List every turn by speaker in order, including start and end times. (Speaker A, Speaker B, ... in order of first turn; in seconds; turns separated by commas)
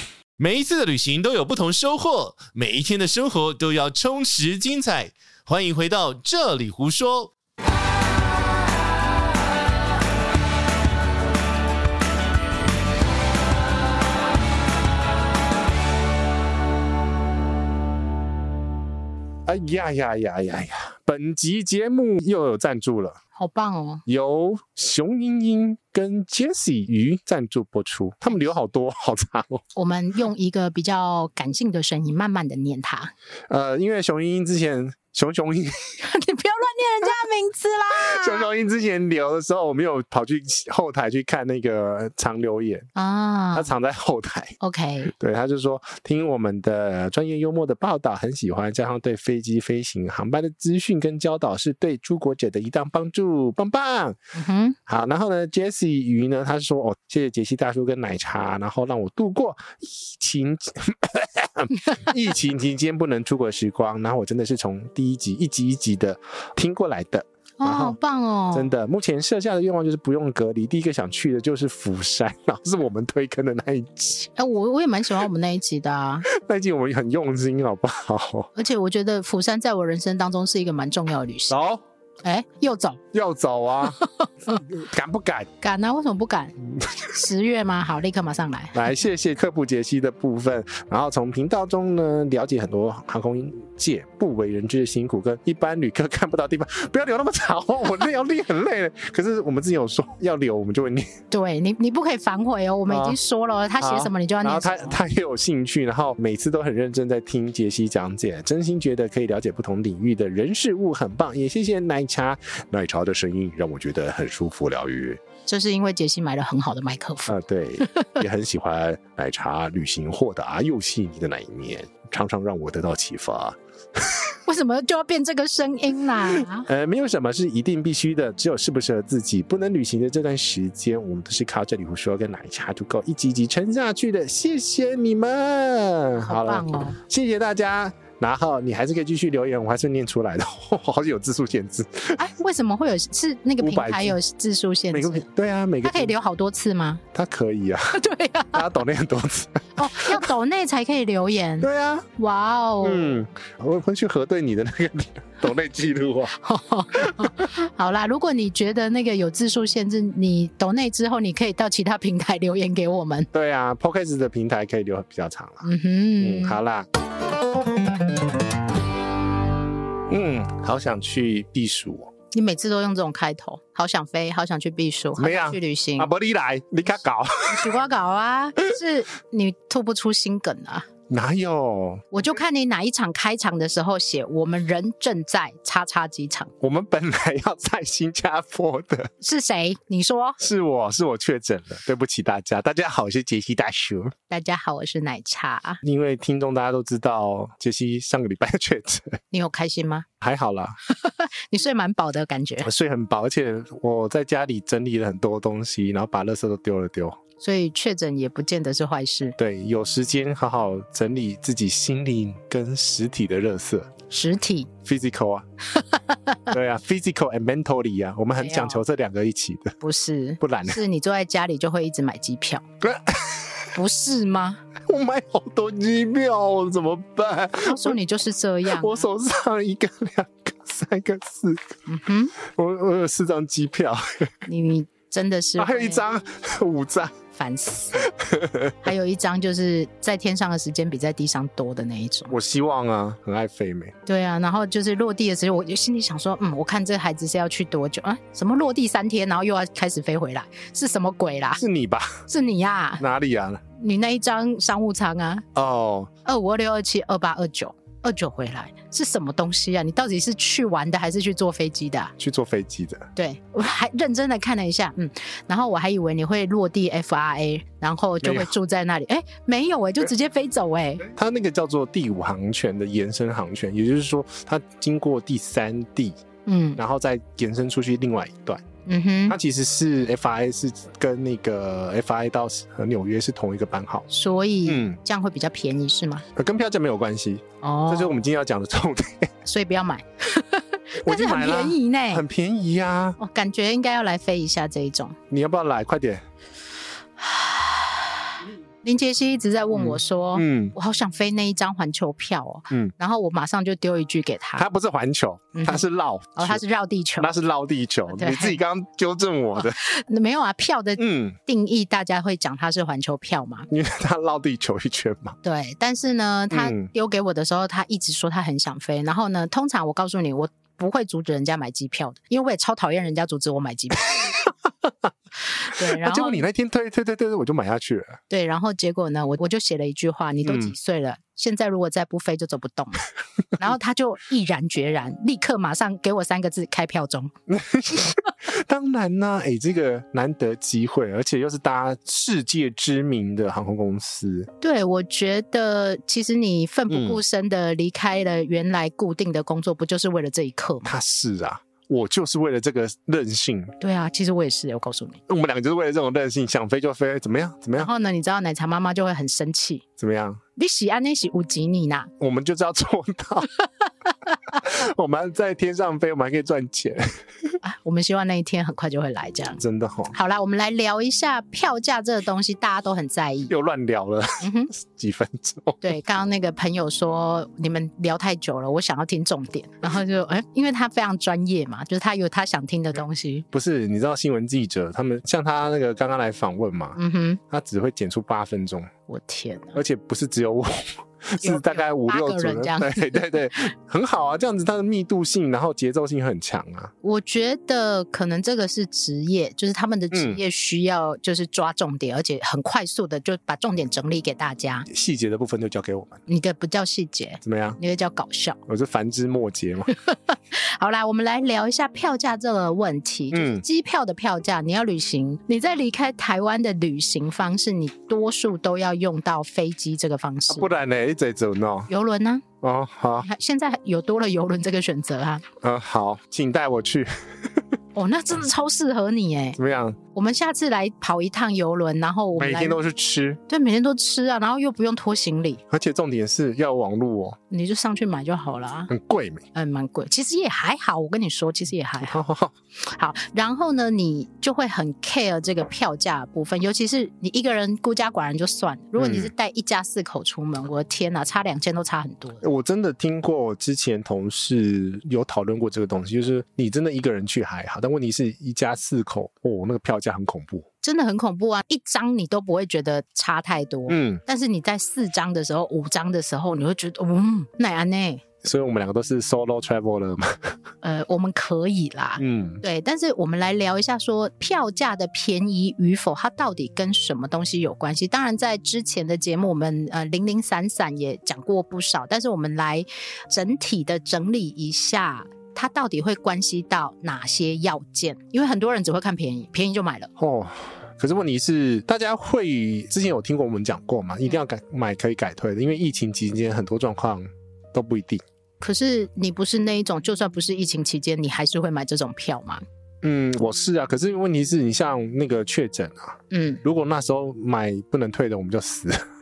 Speaker A: 0.4-7.3, Speaker B: 19.4-23.2, Speaker C: 23.3-24.0, Speaker B: 24.1-29.6, Speaker C: 29.7-33.1, Speaker B: 33.5-36.0, Speaker C: 36.0-38.5, Speaker B: 37.9-42.9, Speaker C: 43.0-43.7, Speaker B: 43.5-44.6, Speaker C: 44.6-45.1, Speaker B: 45.1-54.2, Speaker C: 54.4-54.8, Speaker B: 54.9-68.0, Speaker C: 67.6-68.7, Speaker B: 68.5-74.3, Speaker C: 74.3-76.3, Speaker B: 76.3-78.5, Speaker C: 78.5-81.6, Speaker B: 81.5-81.8, Speaker C: 82.2-83.0, Speaker B: 83.1-84.0, Speaker B: 84.5-85.5, Speaker C: 85.6-88.8, Speaker B: 86.8-87.1, Speaker B: 88.7-101.1, Speaker C: 101.3-105.0, Speaker B: 102.9-103.2, Speaker B: 103.8-115.2, Speaker C: 115.5-118.2, Speaker B: 117.3-124.4, Speaker C: 124.5-126.7, Speaker B: 126.3-142.2, Speaker C: 136.2-137.0, Speaker C: 142.1-145.2, Speaker B: 143.6-144.2, Speaker B: 144.9-146.1, Speaker C: 145.8-147.0, Speaker B: 147.1-148.0, Speaker C: 147.9-148.7, Speaker B: 148.5-150.3, Speaker C: 149.8-153.2, Speaker B: 151.6-152.1, Speaker B: 152.8-156.4, Speaker C: 156.4-163.3, Speaker B: 157.0-157.3, Speaker B: 163.3-166.9, Speaker C: 165.6-166.6, Speaker B: 170.1-172.1, Speaker C: 172.3-176.1, Speaker B: 175.2-177.8, Speaker C: 177.5-180.9, Speaker B: 181.1-182.0, Speaker C: 182.1-186.5, Speaker B: 186.6-189.1, Speaker C: 189.2-190.4, Speaker B: 190.4-194.1, Speaker C: 194.3-195.8, Speaker B: 195.8-199.2, Speaker C: 199.3-200.1, Speaker B: 200.2-200.8, Speaker C: 200.9-202.7, Speaker B: 202.6-207.2, Speaker C: 207.4-209.3, Speaker B: 209.4-213.9, Speaker C: 214.1-214.7, Speaker B: 214.8-215.4, Speaker C: 215.8-216.4, Speaker B: 216.5-219.8, Speaker C: 218.4-218.8, Speaker C: 219.8-222.6, Speaker B: 220.4-220.8, Speaker B: 222.8-223.7, Speaker C: 223.8-224.6, Speaker B: 224.8-227.9, Speaker C: 227.6-229.1, Speaker B: 228.7-231.8, Speaker C: 231.9-232.3, Speaker B: 232.4-234.3, Speaker C: 234.4-236.0, Speaker B: 235.6-237.2, Speaker C: 237.3-238.1, Speaker B: 238.0-238.8, Speaker C: 238.8-242.3, Speaker B: 242.3-243.9, Speaker C: 244.1-251.6, Speaker B: 251.6-252.3, Speaker C: 252.3-253.0, Speaker B: 253.0-253.6, Speaker C: 253.8-255.4, Speaker B: 255.6-256.1, Speaker C: 256.2-262.1, Speaker B: 262.2-263.1, Speaker C: 263.1-271.0, Speaker B: 268.2-268.5, Speaker B: 271.0-276.2, Speaker C: 276.4-276.8, Speaker B: 276.8-278.6, Speaker C: 278.9-279.4, Speaker B: 279.3-284.1, Speaker C: 284.1-286.2, Speaker B: 284.6-285.0, Speaker B: 286.3-289.3, Speaker C: 287.6-288.2, Speaker C: 289.4-292.2, Speaker B: 291.0-293.2, Speaker C: 293.2-295.2, Speaker B: 295.3-296.2, Speaker C: 297.2-304.7, Speaker B: 299.7-300.8, Speaker B: 304.6-306.6, Speaker C: 305.6-307.3, Speaker B: 307.2-309.8, Speaker C: 308.1-308.6, Speaker C: 309.6-313.7, Speaker B: 311.0-311.4, Speaker B: 313.7-315.4, Speaker C: 315.4-324.4, Speaker B: 316.5-316.9, Speaker B: 324.2-324.5, Speaker C: 325.6-326.4, Speaker B: 325.8-328.2, Speaker C: 328.3-337.3, Speaker B: 330.4-330.7, Speaker B: 337.5-344.5, Speaker C: 344.6-350.9, Speaker B: 346.9-347.2, Speaker B: 350.8-353.8, Speaker C: 353.8-355.2, Speaker B: 355.3-357.9, Speaker C: 357.8-359.8, Speaker B: 360.0-360.4, Speaker C: 360.6-362.1, Speaker B: 362.2-363.5, Speaker B: 364.5-367.6, Speaker C: 367.6-373.5, Speaker B: 369.6-370.1, Speaker B: 373.5-375.8, Speaker C: 374.4-374.7, Speaker C: 375.8-383.4, Speaker B: 383.5-388.9, Speaker C: 386.9-387.4, Speaker C: 389.1-389.8, Speaker B: 389.7-396.9, Speaker C: 391.4-393.4, Speaker C: 397.0-404.9, Speaker B: 400.1-400.4, Speaker B: 404.9-406.2, Speaker C: 406.3-408.6, Speaker B: 407.4-407.8, Speaker B: 408.7-409.9, Speaker C: 410.0-420.7, Speaker B: 413.3-413.6, Speaker B: 420.5-421.9, Speaker C: 421.9-422.4, Speaker B: 422.6-423.3, Speaker C: 423.2-425.4, Speaker B: 425.6-427.6, Speaker C: 427.9-429.6, Speaker B: 429.6-430.0, Speaker C: 430.1-432.8, Speaker B: 432.4-433.4, Speaker C: 433.5-435.6, Speaker B: 435.7-437.4, Speaker C: 437.5-438.9, Speaker B: 438.9-439.4, Speaker C: 439.5-442.2, Speaker B: 442.0-442.5, Speaker C: 442.8-452.4, Speaker B: 448.9-449.3, Speaker B: 452.4-460.6, Speaker C: 460.8-468.2, Speaker B: 463.9-464.2, Speaker B: 468.4-470.6, Speaker C: 470.8-490.1, Speaker B: 472.2-472.6, Speaker B: 490.2-498.2, Speaker C: 498.6-502.6, Speaker B: 503.0-509.0, Speaker C: 506.3-506.6